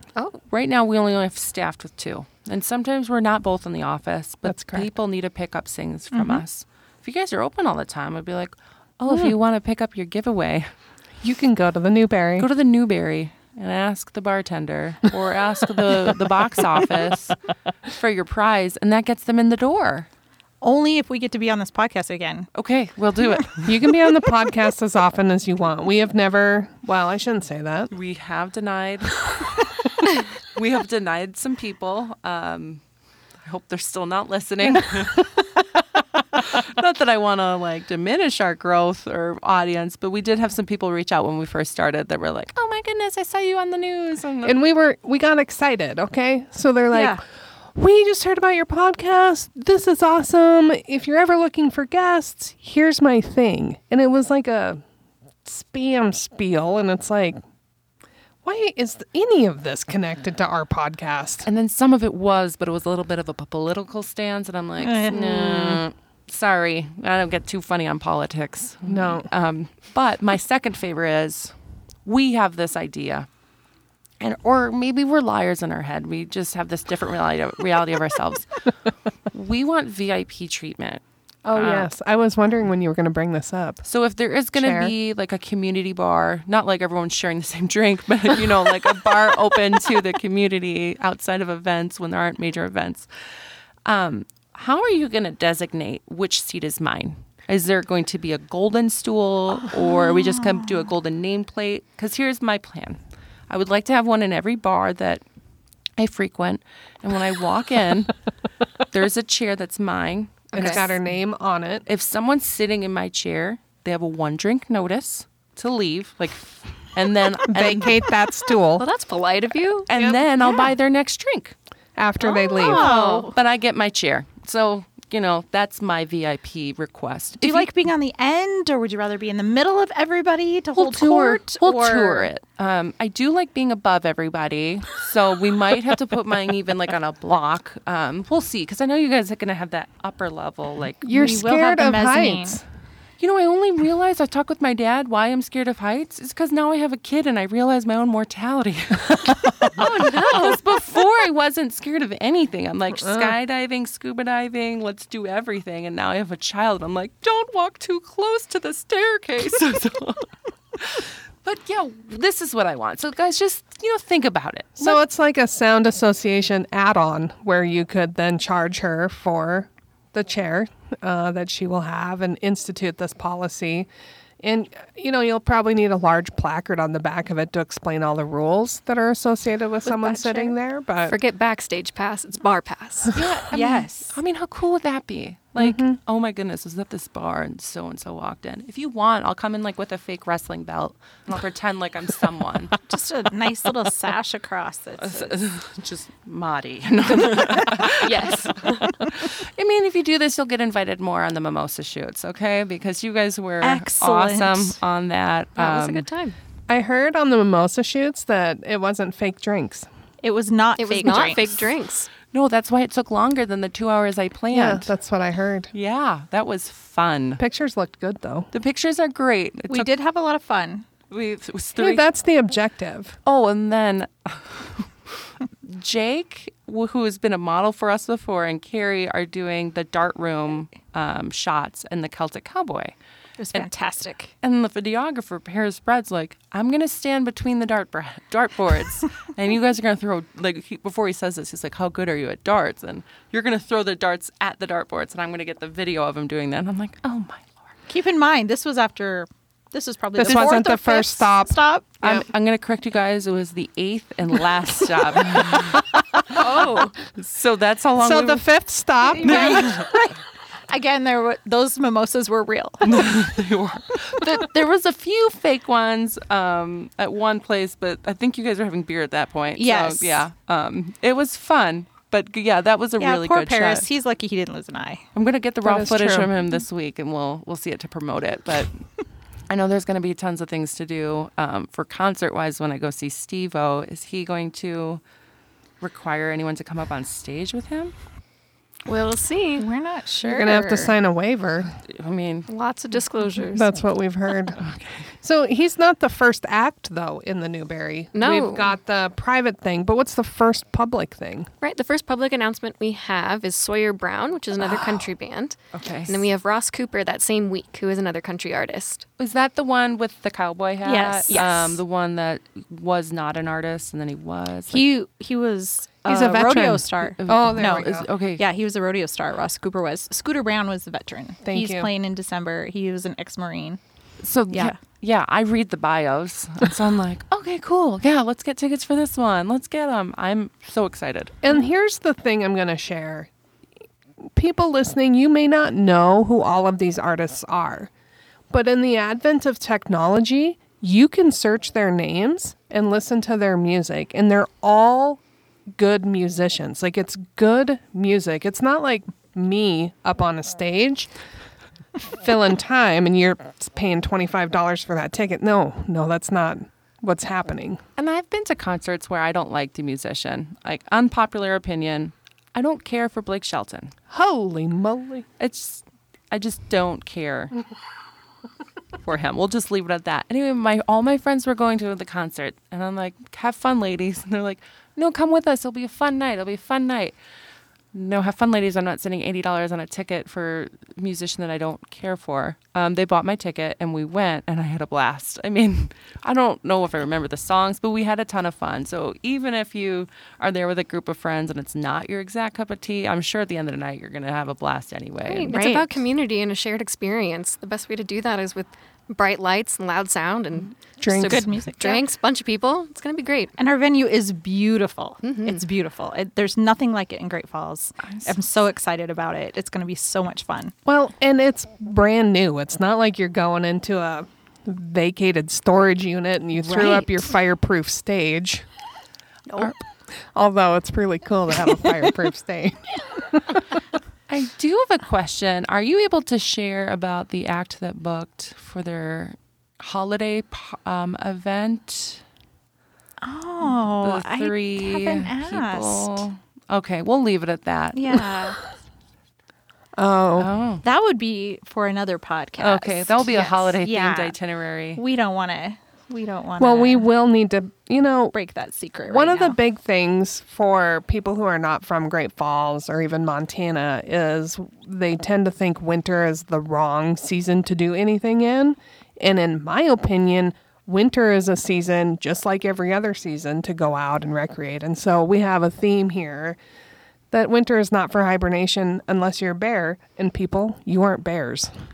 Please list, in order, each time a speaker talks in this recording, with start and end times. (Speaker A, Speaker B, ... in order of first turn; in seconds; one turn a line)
Speaker A: 0.1-0.4
Speaker B: 0.5-10.7
Speaker C: 4.4-4.9
Speaker D: 6.1-6.4
Speaker C: 9.1-9.3
Speaker C: 11.2-12.5
Speaker B: 12.4-17.4
Speaker B: 17.9-20.1
Speaker D: 20.6-22.5
Speaker B: 22.5-23.7
Speaker C: 23.6-27.9
Speaker B: 27.9-29.4
Speaker B: 30.4-32.8
Speaker B: 33.4-35.3
Speaker B: 36.3-44.6
Speaker C: 44.4-47.2
Speaker D: 46.9-47.2
Speaker C: 47.7-54.8
Speaker C: 55.4-57.4
Speaker C: 58.4-61.5
Speaker B: 61.4-71.5
Speaker D: 64.8-65.8
Speaker C: 68.8-69.3
Speaker B: 72.0-73.3
Speaker B: 74.2-78.5
Speaker B: 79.3-81.0
Speaker C: 81.4-83.8
Speaker B: 81.5-81.9
Speaker B: 83.8-93.1
Speaker C: 84.5-84.9
Speaker B: 93.8-105.2
Speaker B: 106.0-108.1
Speaker B: 108.9-111.0
Speaker C: 110.5-111.8
Speaker B: 111.8-118.0
Speaker C: 117.5-118.8
Speaker A: 118.8-119.9
Speaker B: 119.9-121.5
Speaker C: 119.9-120.2
Speaker C: 122.0-122.9
Speaker A: 122.5-123.3
Speaker D: 122.5-123.3
Speaker B: 122.9-127.7
Speaker D: 127.4-132.3
Speaker B: 130.7-141.4
Speaker C: 141.0-142.6
Speaker D: 141.1-142.6
Speaker B: 143.2-165.0
Speaker A: 149.8-150.5
Speaker C: 153.0-153.3
Speaker C: 164.8-173.9
Speaker C: 174.4-181.2
Speaker D: 179.9-180.5
Speaker A: 181.1-183.2
Speaker B: 183.1-192.7
Speaker D: 183.5-184.2
Speaker C: 185.6-186.0
Speaker D: 192.9-195.3
Speaker B: 195.0-206.1
Speaker A: 197.8-199.1
Speaker D: 203.6-204.8
Speaker A: 205.6-206.3
Speaker C: 206.7-209.9
Speaker D: 210.2-211.7
Speaker A: 210.8-212.1
Speaker B: 212.3-214.9
Speaker C: 214.5-215.7
Speaker B: 215.7-217.4
Speaker C: 217.4-218.5
Speaker B: 218.5-219.9
Speaker D: 219.7-220.9
Speaker B: 221.1-222.1
Speaker C: 221.8-223.2
Speaker B: 223.2-232.9
Speaker D: 233.4-234.3
Speaker B: 234.4-247.6
Speaker D: 247.9-251.9
Speaker C: 250.2-252.2
Speaker B: 252.0-258.4
Speaker C: 258.0-259.9
Speaker D: 259.1-260.1
Speaker B: 259.2-259.8
Speaker D: 260.7-263.1
Speaker B: 262.8-273.9
Speaker D: 269.5-270.2
Speaker D: 273.0-275.1
Speaker B: 275.1-278.8
Speaker C: 275.6-276.3
Speaker B: 279.5-285.0
Speaker B: 285.8-287.9
Speaker A: 288.9-289.7
Speaker D: 289.6-290.9
Speaker C: 290.3-291.7
Speaker B: 291.9-292.5
Speaker A: 292.5-293.7
Speaker C: 293.5-294.6
Speaker B: 294.6-295.1
Speaker C: 295.2-301.5
Speaker A: 298.1-298.7
Speaker A: 301.6-309.0
Speaker C: 304.6-305.0
Speaker B: 305.7-306.2
Speaker B: 309.2-314.8
Speaker D: 310.8-311.5
Speaker A: 311.3-311.6
Speaker D: 314.7-323.8
Speaker C: 316.0-318.1
Speaker B: 317.2-318.4
Speaker C: 321.4-321.9
Speaker B: 324.2-331.3
Speaker D: 324.5-324.8
Speaker C: 331.4-333.3
Speaker C: 334.3-337.9
Speaker C: 338.5-345.2
Speaker C: 345.8-351.1
Speaker C: 352.1-357.8
Speaker B: 358.0-363.9
Speaker C: 364.1-365.2
Speaker B: 365.4-367.5
Speaker B: 369.0-377.1
Speaker B: 377.9-395.5
Speaker A: 395.2-403.5
Speaker D: 395.5-395.9
Speaker C: 401.0-401.6
Speaker D: 401.2-402.0
Speaker D: 403.6-410.7
Speaker A: 405.2-405.6
Speaker B: 408.0-408.3
Speaker C: 410.8-418.6
Speaker D: 416.8-417.1
Speaker C: 420.3-423.6
Speaker B: 424.3-432.2
Speaker D: 433.2-436.2
Speaker B: 433.8-438.2
Speaker D: 437.9-438.6
Speaker C: 439.9-440.5
Speaker B: 440.4-440.8
Speaker D: 440.8-444.4
Speaker B: 442.6-445.0
Speaker D: 444.9-447.1
Speaker C: 446.6-448.3
Speaker D: 448.3-449.6
Speaker C: 449.1-466.6
Speaker C: 467.3-471.7